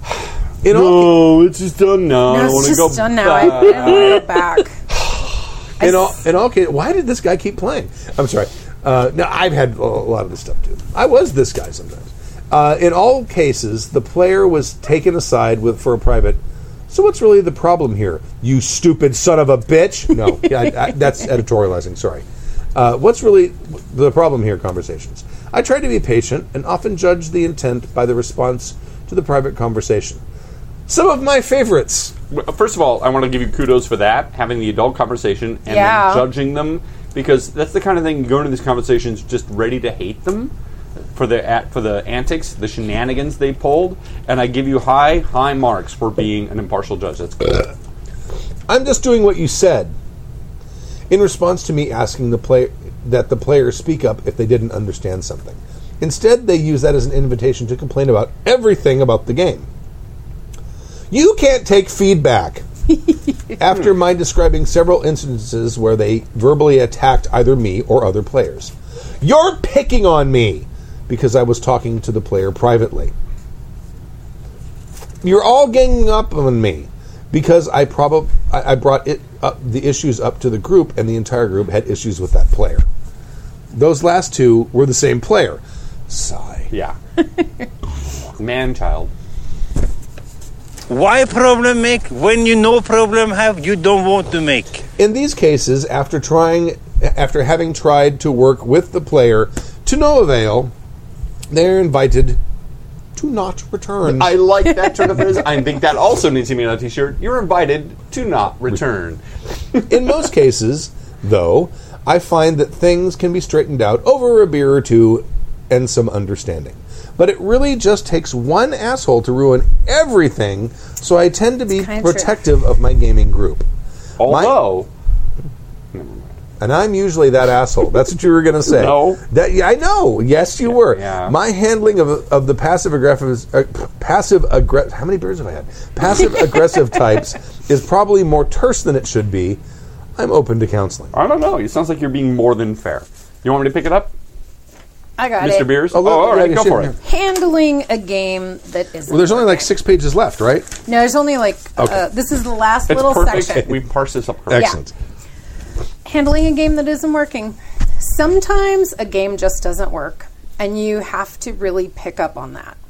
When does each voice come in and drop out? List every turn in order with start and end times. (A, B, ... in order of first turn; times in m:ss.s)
0:00.6-0:01.3 A
0:00.6-0:04.4 B
0:02.2-0:04.8 C
0:05.8-0:06.1 C
0:05.8-0:30.2 A
0:30.9-0:32.1 A
0:32.3-0:40.5 B
0:35.7-0:36.3 C
0:41.1-0:47.7 B
0:48.7-0:49.9 A
0:51.1-0:59.7 A
1:01.1-1:02.6 A
1:03.6-1:13.1 A
1:15.2-1:22.8 A
1:23.7-1:26.7 A
1:26.7-1:27.0 B
1:27.4-1:27.6 C
1:28.4-1:29.1 B
1:30.9-1:34.8 D
1:35.0-1:40.7 A
1:41.5-1:42.4 A
1:43.1-1:44.4 A
1:44.0-1:49.2 B
1:49.9-2:03.6 A
2:01.7-2:02.4 C
2:04.2-2:04.9 B
2:04.2-2:04.6 A
2:05.9-2:06.3 B
2:06.6-2:19.6 A
2:08.6-2:09.2 B
2:10.6-2:11.3 B
2:20.2-2:21.1 A
2:21.1-2:24.1 B
2:25.2-2:25.9 C
2:25.4-2:26.9 B
2:25.9-2:27.0 A
2:27.0-2:29.7 C
2:29.1-2:30.8 A
2:30.8-2:33.7 C
2:32.9-2:34.7 B
2:33.3-2:33.7 A
2:34.5-2:34.9 A
2:34.5-2:34.8 C
2:36.0-2:42.8 C